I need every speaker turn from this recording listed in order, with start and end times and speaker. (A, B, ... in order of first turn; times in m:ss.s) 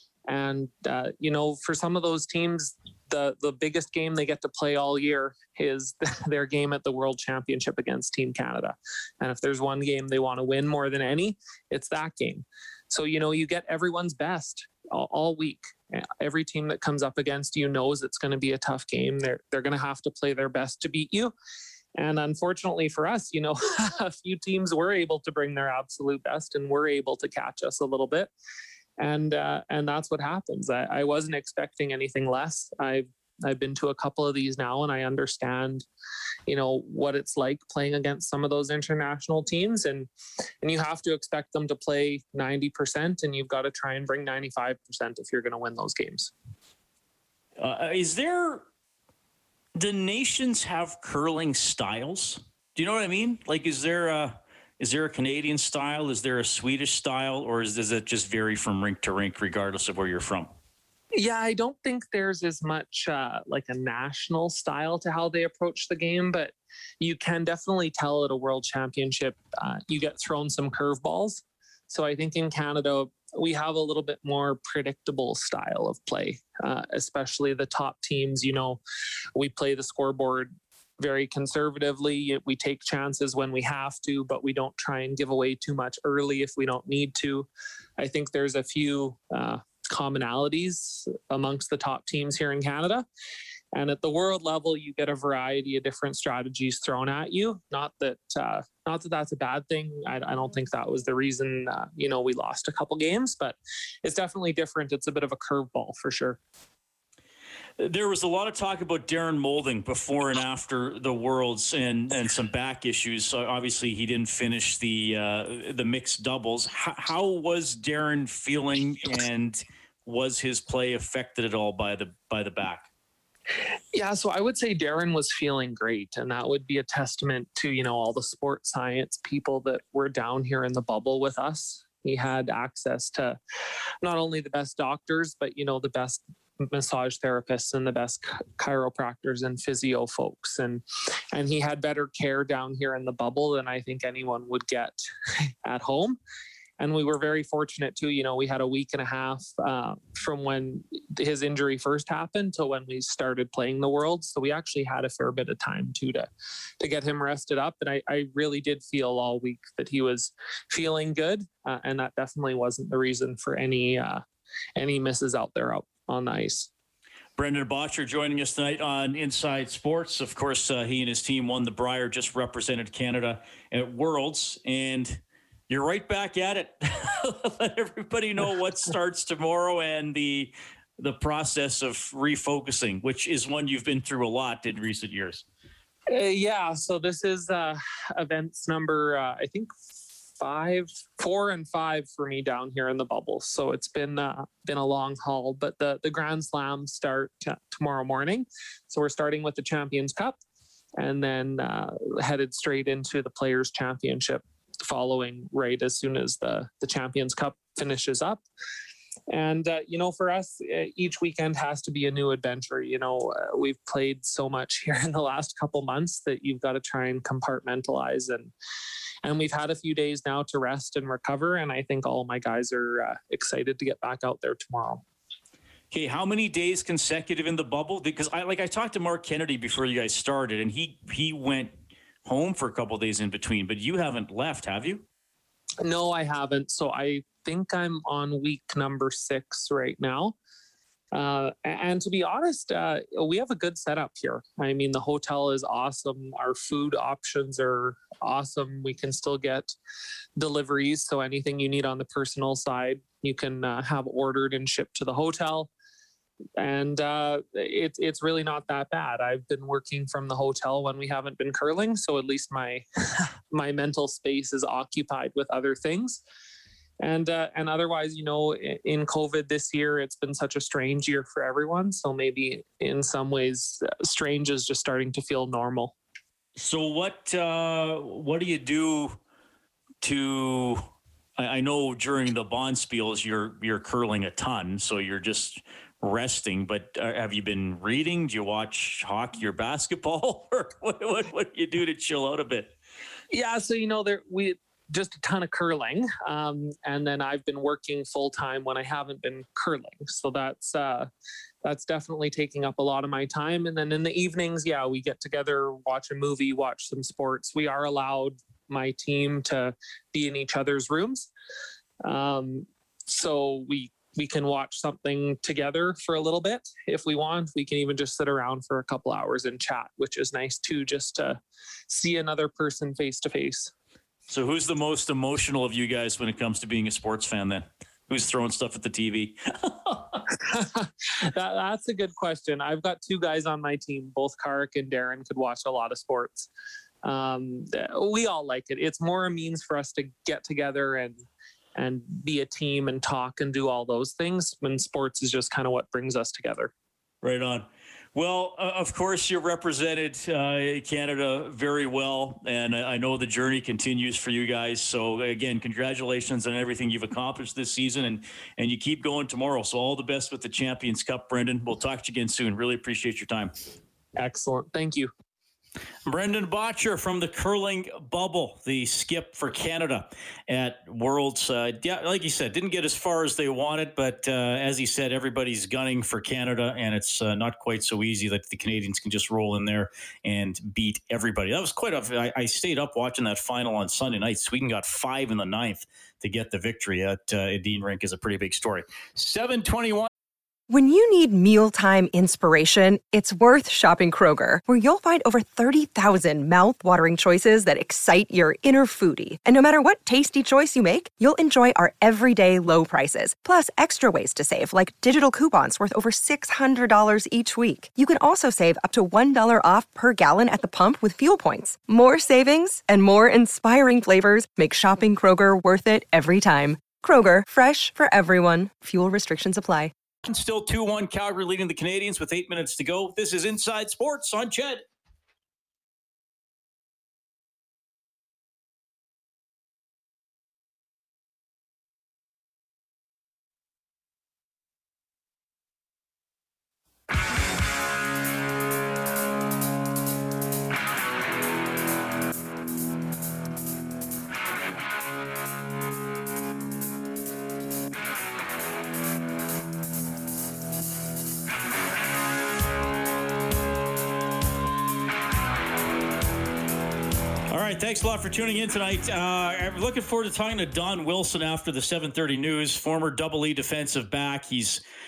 0:00.3-0:21.3 A
0:22.0-0:28.3 A
0:29.0-0:35.8 A
0:36.5-0:40.1 A
0:40.6-0:46.3 A
0:47.6-0:48.6 B
0:49.8-1:00.5 B
1:01.2-1:18.8 A
1:19.4-1:27.5 A
1:28.0-1:33.0 A
1:33.7-1:46.4 A
1:47.8-2:02.9 B
2:03.9-2:13.4 A
2:14.0-2:25.0 A
2:25.6-2:26.2 A
2:26.8-2:36.3 A
2:36.8-2:44.2 A
2:44.8-2:46.7 A
2:47.4-3:05.4 B
3:06.1-3:09.7 A
3:10.4-3:20.4 A
3:21.0-3:28.4 A
3:29.3-3:38.5 A
3:39.2-3:45.0 A
3:45.9-3:55.0 B
3:55.8-4:00.4 A
4:01.1-4:09.7 A
4:10.4-4:15.7 A
4:16.6-4:26.2 A
4:27.0-4:35.9 A
4:36.6-4:39.2 B
4:40.0-4:40.8 B
4:41.4-4:52.7 B
4:53.3-5:01.1 A
5:01.6-5:11.3 A
5:12.0-5:23.7 A
5:24.3-5:30.2 B
5:30.4-5:36.5 A
5:37.0-5:41.2 A
5:41.8-5:46.7 A
5:47.2-6:03.5 B
6:04.2-6:05.1 A
6:06.0-6:30.1 B
6:30.7-6:59.9 C
7:00.2-7:04.8 B
7:37.5-7:44.8 B